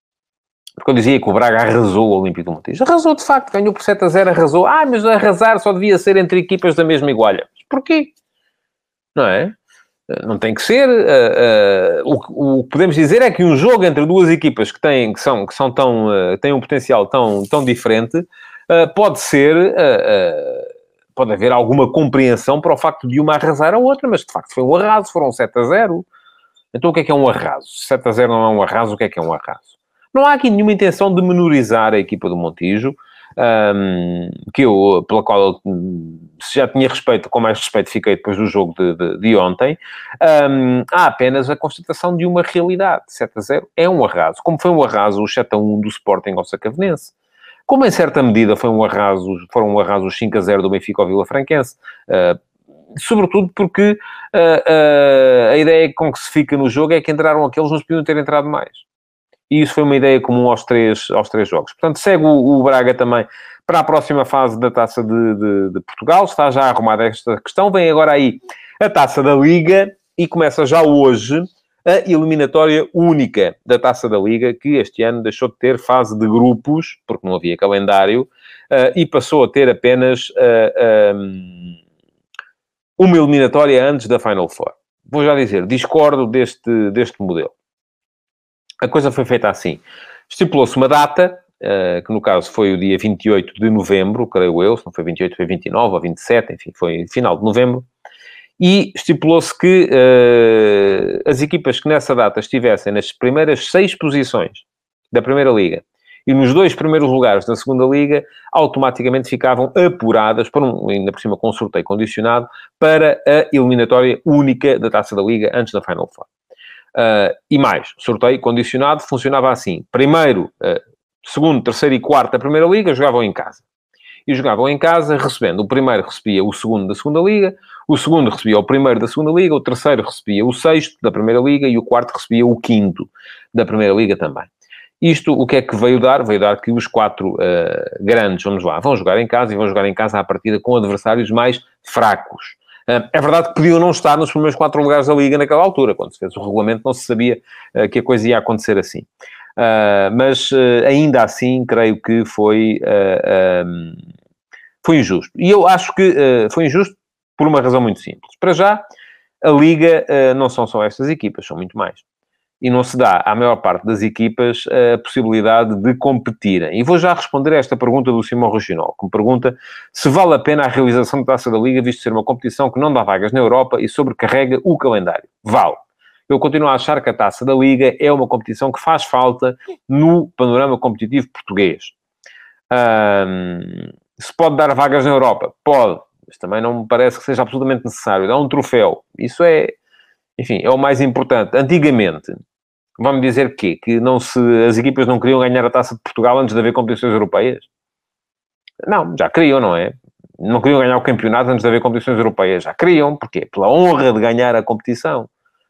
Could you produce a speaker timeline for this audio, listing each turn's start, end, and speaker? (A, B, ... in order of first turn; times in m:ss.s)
0:00.8-0:08.1 A
0:09.2-0:09.5 A
0:10.1-0:26.1 A
0:26.7-0:47.1 A
0:47.7-0:52.4 A
0:52.9-0:58.8 A
0:59.5-1:21.8 A
1:23.0-1:27.5 A
1:28.8-1:37.9 A
1:38.6-1:56.3 A
1:56.9-2:03.6 A
2:04.3-2:14.5 A
2:15.0-2:34.0 A
2:34.8-2:38.8 A
2:39.4-2:42.0 A
2:42.6-3:01.9 A
3:02.7-3:09.7 A
3:10.4-3:12.4 A
3:13.0-3:17.7 A
3:18.8-3:25.3 A